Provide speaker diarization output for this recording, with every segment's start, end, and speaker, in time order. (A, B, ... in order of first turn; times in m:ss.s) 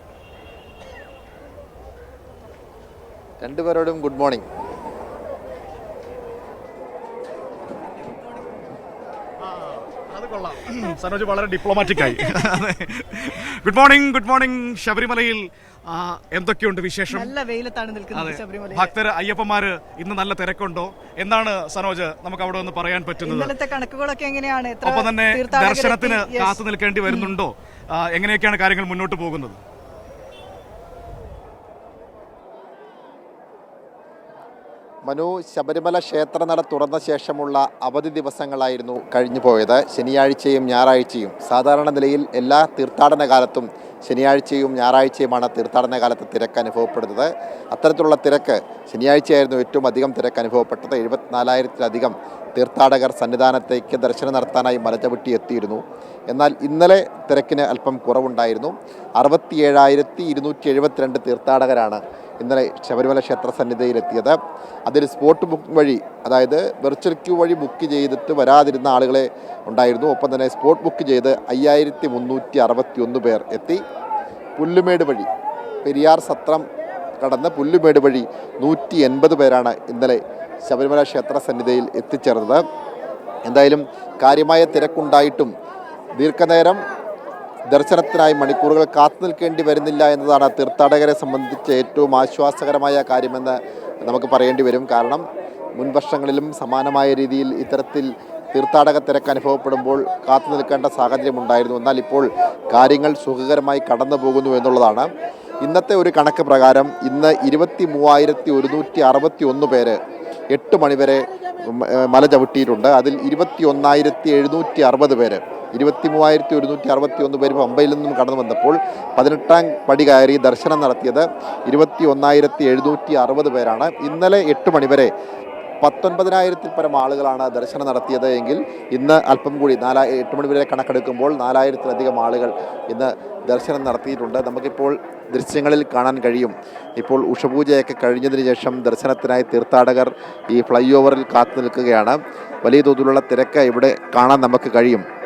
0:03.4-0:04.4 A
0:09.5-0:17.3 B
0:12.0-0:12.2 C
0:17.1-0:18.9 C
0:18.1-0:23.5 B
0:23.2-0:27.3 C
0:24.8-0:29.6 B
0:35.0-1:13.8 A
1:14.6-1:15.3 A
1:15.8-1:16.6 A
1:17.2-1:22.6 A
1:23.4-1:25.5 A
1:26.2-1:26.8 A
1:27.7-1:35.2 A
1:35.8-1:45.1 A
1:45.6-1:50.0 A
1:50.5-2:05.1 A
2:05.8-2:25.0 A